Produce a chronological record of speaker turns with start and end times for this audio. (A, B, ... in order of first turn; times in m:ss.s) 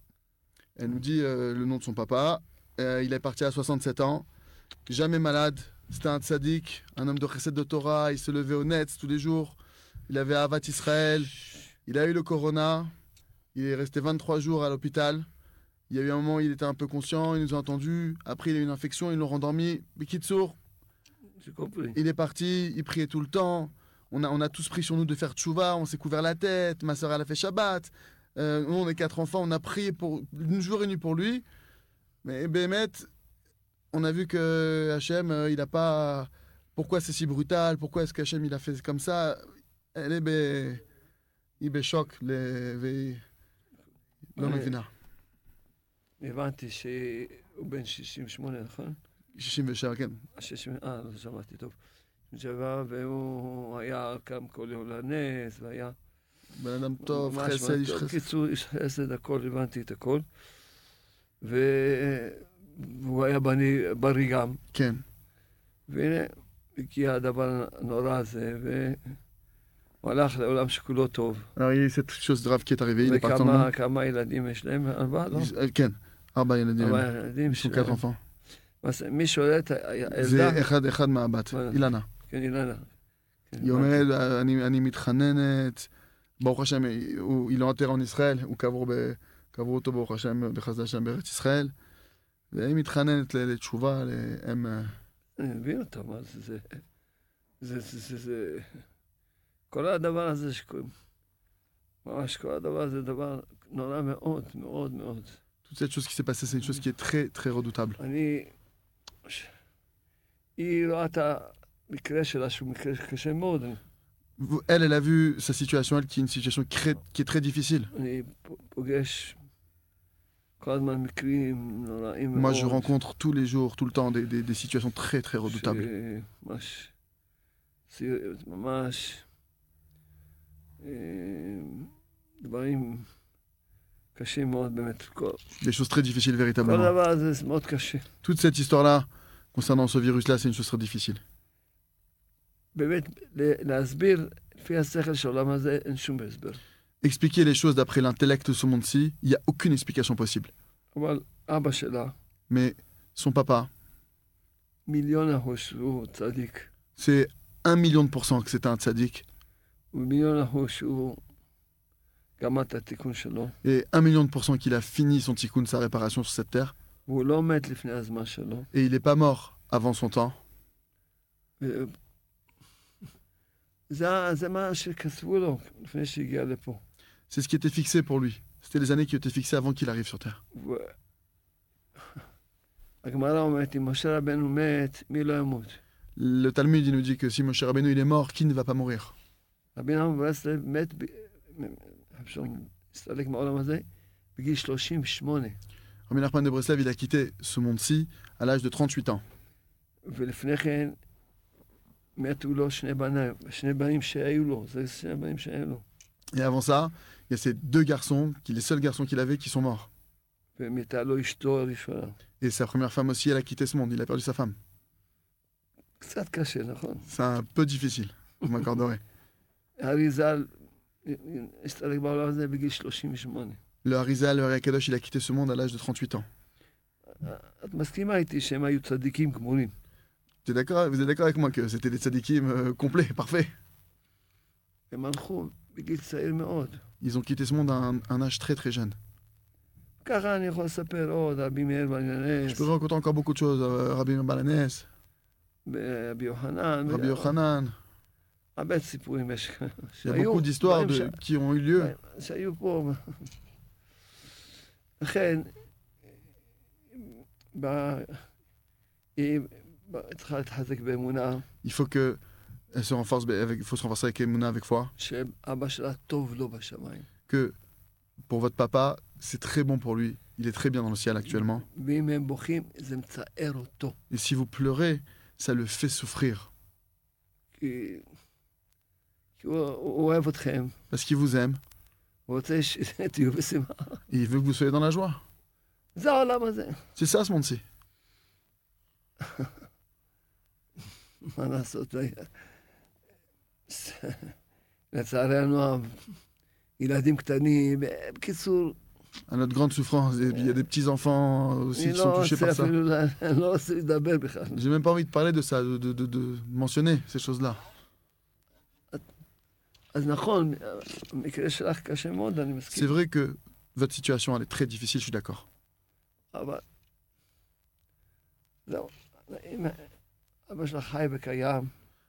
0:00.8-0:04.3 A
0:04.9-0:12.9 A
0:13.5-0:15.3 A
0:15.9-0:20.6 A
0:21.4-0:22.0 B
0:21.9-0:31.4 A
0:32.2-0:33.1 A
0:33.9-0:39.4 A
0:39.9-0:40.8 A
0:41.6-0:43.2 A
0:44.4-0:44.9 A
0:44.4-0:44.7 B
0:46.2-0:49.0 B
0:49.4-0:50.3 A
0:50.4-0:51.8 B
0:52.3-0:56.0 B
0:56.5-0:58.2 A
0:57.0-1:00.2 B
1:01.4-1:04.6 B
1:04.7-1:05.0 A
1:05.9-1:09.2 B
1:10.0-1:11.5 B
1:11.6-1:13.7 A
1:13.0-1:15.5 B
1:15.3-1:18.2 A
1:16.8-1:18.0 B
1:18.8-1:20.7 B
1:20.1-1:22.1 A
1:21.5-1:22.9 B
1:23.5-1:24.0 B
1:23.6-1:25.9 A
1:26.4-1:31.7 A
1:32.5-1:35.0 A
1:35.4-1:36.8 B
1:37.6-1:38.8 B
1:39.7-1:40.9 B
1:42.0-1:45.4 B
1:45.6-1:48.0 A
1:48.0-1:48.5 B
1:49.3-1:49.5 B
1:50.6-1:53.8 B
1:54.4-1:57.9 A
1:57.9-1:59.4 B
2:00.6-2:02.9 B
2:02.3-2:05.9 A
2:05.5-2:06.9 B
2:07.9-2:09.2 B
2:10.8-2:11.9 B
2:12.4-2:13.1 B
2:14.2-2:15.4 B
2:15.6-2:16.9 A
2:16.6-2:18.0 B
2:18.2-2:21.2 A
2:22.8-2:26.6 B
2:27.0-2:30.5 A
2:31.0-2:32.1 B
2:32.5-2:33.7 A
2:34.9-2:36.7 B
2:37.0-2:39.2 A
2:39.9-2:41.2 B
2:42.4-2:43.6 B
2:43.6-2:46.7 A
2:47.1-2:48.7 B
2:48.7-2:50.4 A
2:51.6-2:51.9 B
2:53.9-2:56.8 B
2:57.3-3:00.4 A
3:00.6-3:00.9 B
3:03.0-3:05.8 B
3:06.2-3:09.2 A
3:09.8-3:13.8 B
3:14.4-3:15.6 B
3:16.1-3:19.2 A
3:20.1-3:21.0 B
3:22.2-3:25.8 B
3:26.3-3:29.9 A
3:30.6-3:32.2 B
3:32.4-3:34.6 A
3:36.0-3:37.1 B
3:37.1-3:39.0 A
3:39.8-3:40.5 B
3:41.0-3:43.6 B
3:43.8-3:46.3 A
3:47.2-3:49.7 B
3:50.4-3:53.5 A
3:54.9-3:56.8 B
3:57.0-3:59.0 A
4:00.0-4:02.7 B
4:02.5-4:04.9 A
4:05.7-4:07.3 B
4:06.9-4:07.8 A
4:08.6-4:11.2 B
4:10.0-4:12.0 A
4:11.8-4:13.3 B
4:15.0-4:15.5 B
4:16.9-4:18.2 B
4:19.2-4:21.5 B
4:21.6-4:22.2 A
4:22.7-4:24.9 A
4:25.0-4:27.1 B
4:27.3-4:27.5 A
4:28.3-4:31.7 A
4:31.7-4:34.0 B
4:34.1-4:36.5 A
4:37.6-4:38.0 B
4:39.4-4:40.8 B
4:40.9-4:41.6 A
4:42.3-4:44.0 B
4:44.1-4:45.2 A
4:46.0-4:46.8 B
4:47.0-4:47.6 A
4:49.2-4:49.5 B
4:51.2-4:52.3 B
4:53.7-4:54.3 B
4:54.9-4:56.1 B
4:56.8-4:58.8 B
4:59.3-5:02.7 A
5:01.8-5:04.6 B
5:04.5-5:07.6 A
5:09.9-5:13.0 B
5:12.7-5:15.4 A
5:16.3-5:16.6 B
5:18.7-5:19.9 B
5:20.5-5:21.7 B